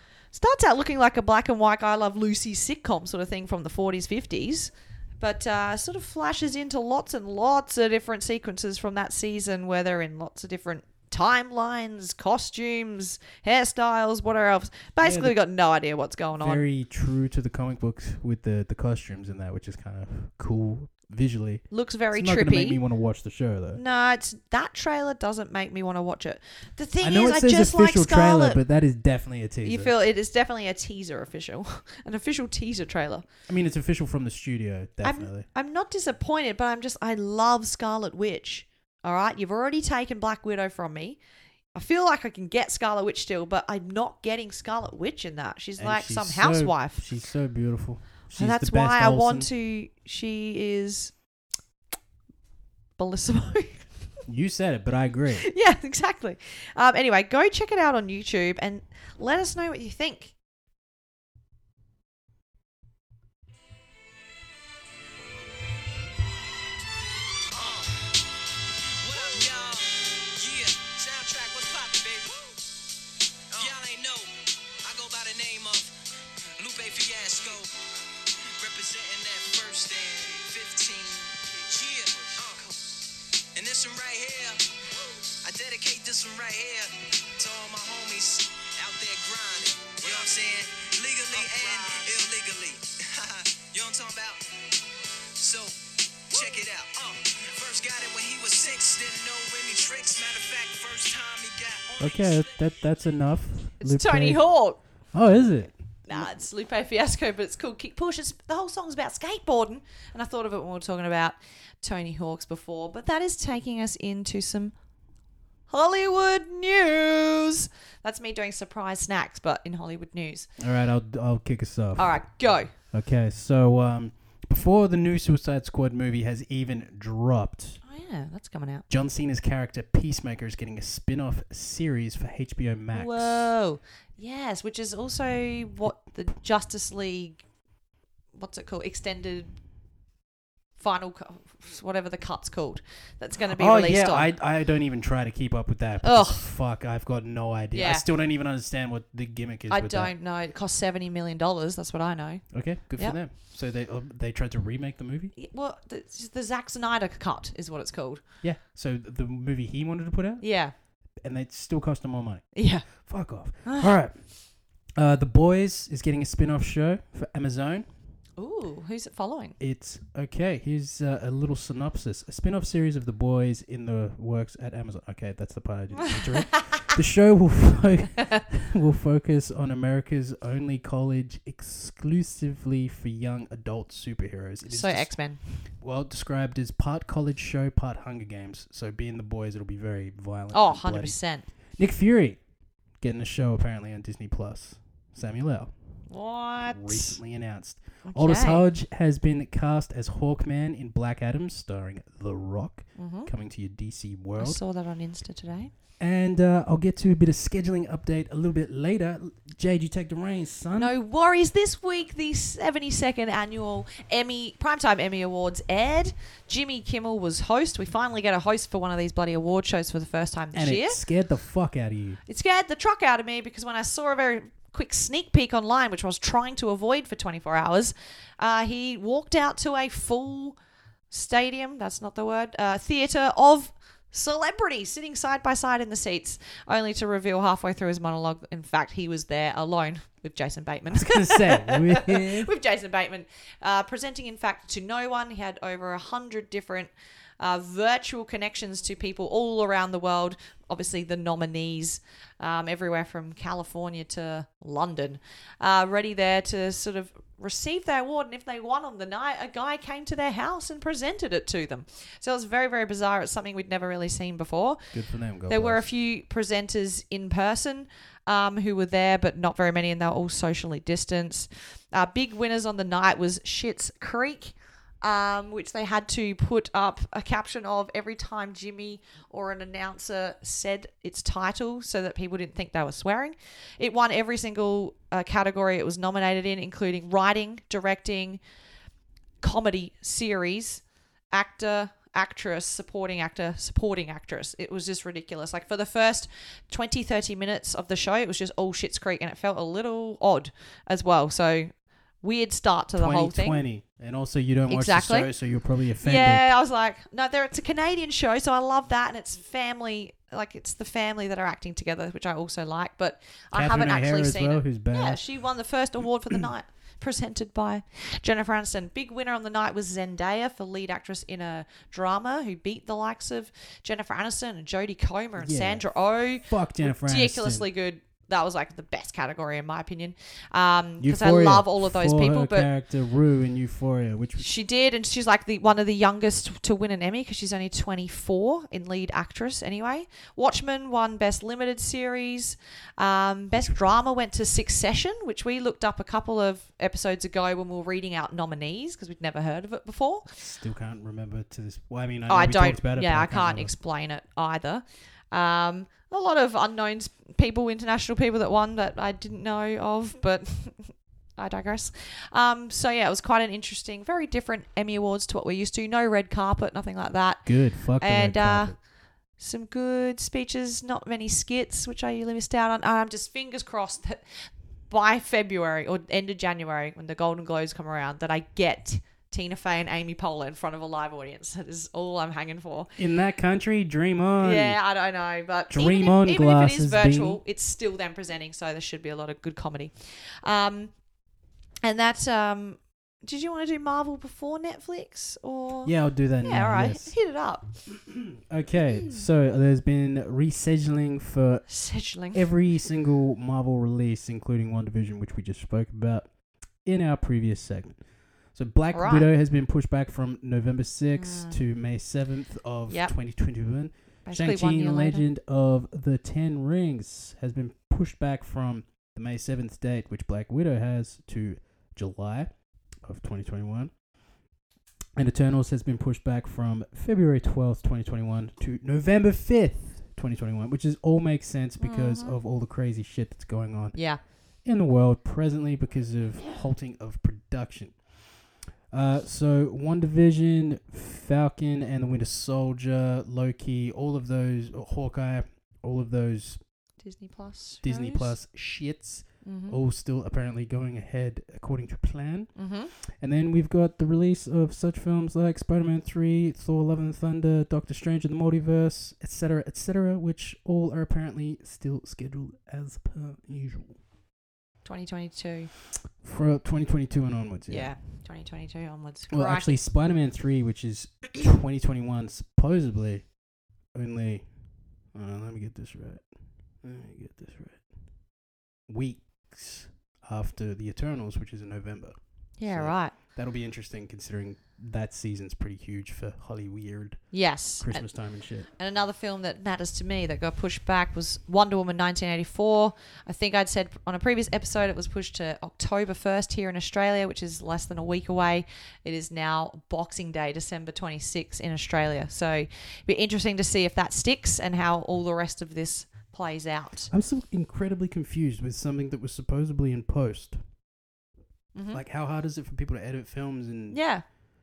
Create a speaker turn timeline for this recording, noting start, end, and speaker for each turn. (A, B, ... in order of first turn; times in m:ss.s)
0:00.3-0:16.6 A
0:15.0-0:15.4 B
0:16.4-0:23.8 B
0:21.7-0:22.8 A
0:23.8-0:28.6 A
0:27.0-0:29.9 B
0:29.6-0:33.2 A
0:33.5-0:35.4 B
0:35.0-0:41.2 A
0:41.7-0:47.0 A
0:45.8-0:49.5 B
0:48.4-0:51.1 A
0:53.0-0:53.9 A
0:54.3-0:55.5 B
0:55.4-1:00.3 A
1:07.5-1:08.1 C
1:08.8-1:12.6 C
1:13.5-1:16.0 C
1:16.6-1:22.9 C
1:23.5-1:24.9 C
1:25.4-1:34.6 C
1:31.4-1:32.1 A
1:35.4-1:42.6 C
1:42.0-1:44.4 B
1:43.8-1:44.8 A
1:45.1-1:46.2 B
1:46.0-1:54.7 A
1:55.7-2:00.5 A
2:00.6-2:02.2 B
2:02.0-2:02.7 A
2:02.9-2:07.8 B
2:07.8-2:08.8 A
2:08.9-2:13.5 B
2:12.9-2:17.4 A
2:18.3-2:19.5 A
2:20.8-2:24.3 A
2:23.5-2:30.1 B
2:26.0-2:26.5 A
2:27.7-2:28.0 A
2:29.7-2:33.2 A
2:32.5-2:35.3 B
2:35.4-2:38.2 A
2:38.4-2:40.4 B
2:40.4-2:40.7 A
2:41.2-2:44.3 B
2:42.5-2:42.9 A
2:43.6-2:43.9 A
2:45.0-2:47.9 B
2:48.4-2:49.6 A
2:49.6-3:11.1 B
3:04.7-3:05.4 A
3:10.5-3:11.5 A
3:11.8-3:12.4 B
3:13.0-3:15.7 B
3:16.1-3:17.2 A
3:16.7-3:24.6 B
3:18.0-3:18.6 A
3:23.0-3:23.3 A
3:24.4-3:25.7 A
3:26.0-3:30.9 B
3:30.8-3:41.0 A
3:40.5-3:42.2 B
3:42.3-3:50.6 A
3:51.1-4:24.9 A
4:00.9-4:02.5 B
4:24.9-4:25.8 B
4:25.5-4:48.4 A
4:49.4-5:03.6 A
5:02.9-5:06.5 B
5:04.7-5:05.3 A
5:06.0-5:32.7 A
5:13.5-5:15.2 B
5:25.4-5:25.8 B
5:26.4-5:27.6 B
5:31.0-5:34.5 B
5:34.4-5:50.3 A
5:50.3-5:53.7 B
5:52.3-6:08.8 A
6:07.4-6:08.8 B
6:09.4-6:22.9 A
6:23.0-6:24.8 B
6:24.4-6:30.9 A
6:25.7-6:27.4 B
6:31.8-6:37.7 A
6:35.8-6:37.1 B
6:38.1-6:41.6 B
6:38.9-6:39.2 A
6:41.7-6:42.5 A
6:42.3-6:46.3 B
6:46.8-7:03.9 B
6:48.9-6:49.3 A
6:51.2-6:51.6 A
6:52.9-6:53.1 A
6:54.2-6:55.2 A
7:05.2-7:14.0 B
7:11.8-7:12.4 A
7:13.9-7:14.2 A
7:14.6-7:18.0 B
7:18.9-7:26.6 B
7:27.0-7:28.4 A
7:27.8-7:32.5 B
7:29.4-7:29.8 A
7:32.6-7:32.9 A
7:33.0-7:44.0 B
7:44.8-7:45.7 A
7:46.2-7:47.9 B
7:47.7-7:49.7 A
7:49.3-7:53.3 B
7:53.9-7:54.5 B
7:55.1-7:56.3 B
7:56.8-7:57.9 B
7:58.9-8:08.7 B
8:02.6-8:03.1 A
8:07.3-8:08.0 A
8:08.7-8:27.1 A
8:27.1-8:30.6 B
8:31.7-8:32.0 A
8:31.9-8:34.0 B
8:33.9-8:34.2 A